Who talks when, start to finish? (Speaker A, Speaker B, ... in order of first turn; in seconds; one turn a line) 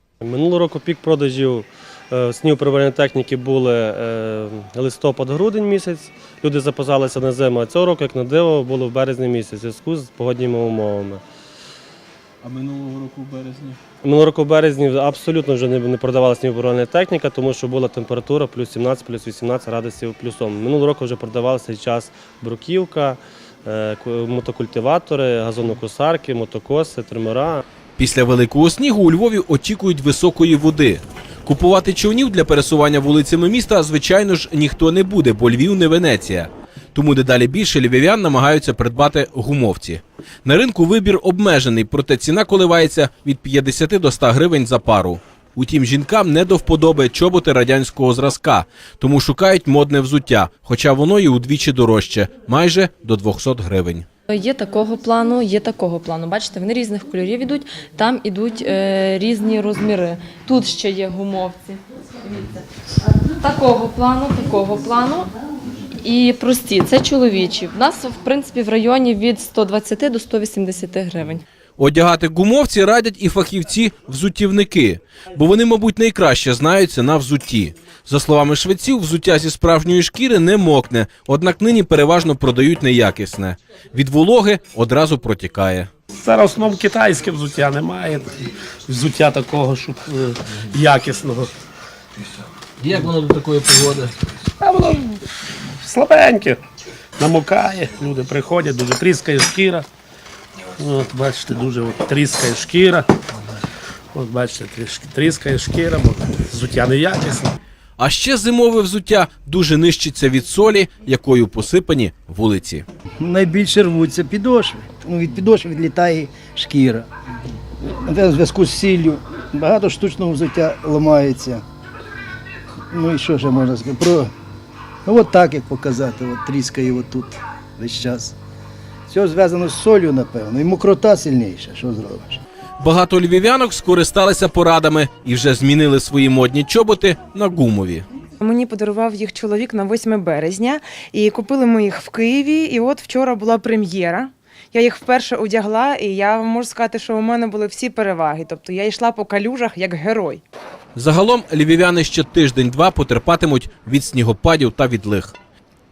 Speaker A: 0.2-11.2
Speaker B: 12.4-13.8
Speaker A: 14.0-27.6
Speaker B: 28.0-54.0
Speaker C: 54.3-62.6
Speaker C: 63.4-65.2
Speaker C: 66.0-71.4
Speaker B: 71.8-85.9
Speaker D: 86.1-91.5
Speaker B: 92.8-94.1
Speaker D: 94.6-96.6
Speaker D: 97.2-99.9
Speaker D: 100.8-103.1
Speaker D: 104.1-107.6
Speaker B: 108.0-112.8
Speaker E: 113.2-117.1
Speaker E: 117.8-121.6
Speaker E: 122.9-124.3
Speaker E: 125.0-128.3
Speaker E: 129.1-132.4
Speaker B: 132.8-138.1
Speaker F: 138.4-150.4
Speaker B: 150.9-155.3